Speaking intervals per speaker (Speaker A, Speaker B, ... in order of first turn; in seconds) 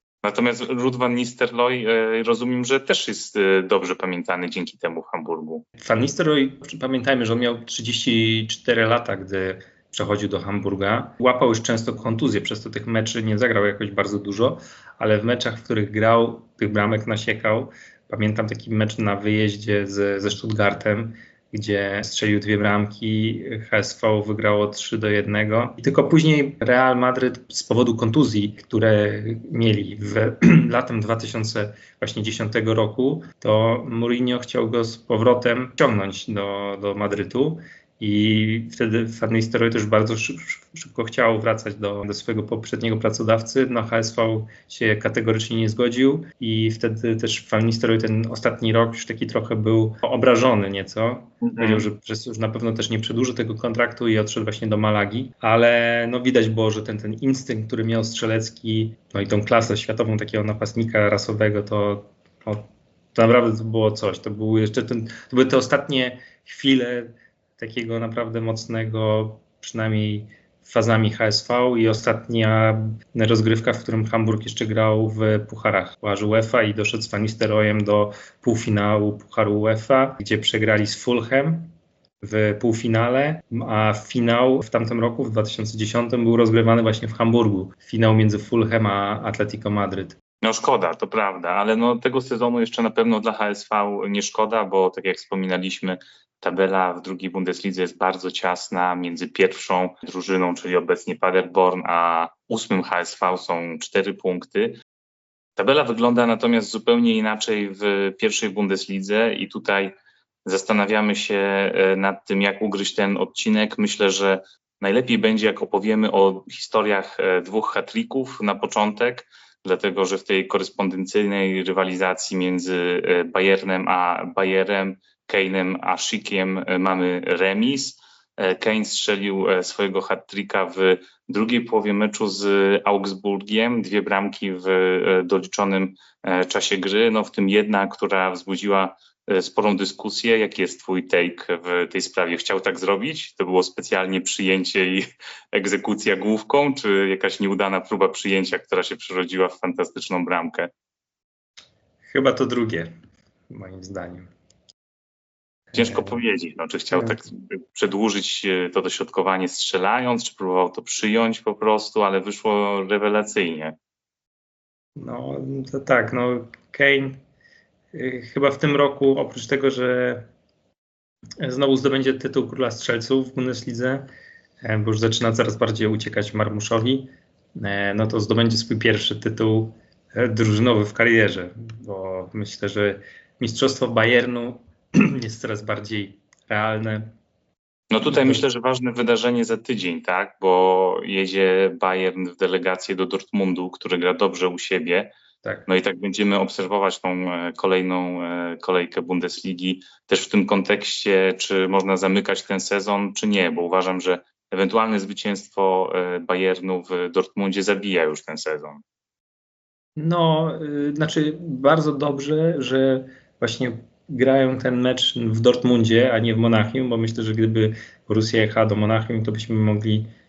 Speaker A: 0.2-5.7, 51.4-51.9, 90.4-104.8, 105.6-110.0, 110.5-150.7, 155.7-163.8, 187.9-195.1, 195.7-208.8
Speaker B: 5.8-90.2, 152.1-152.9, 153.5-154.3, 155.8-156.2, 156.9-157.2, 165.0-167.2, 167.9-170.2, 171.4-174.1, 174.6-187.1, 188.0-188.4, 210.0-220.1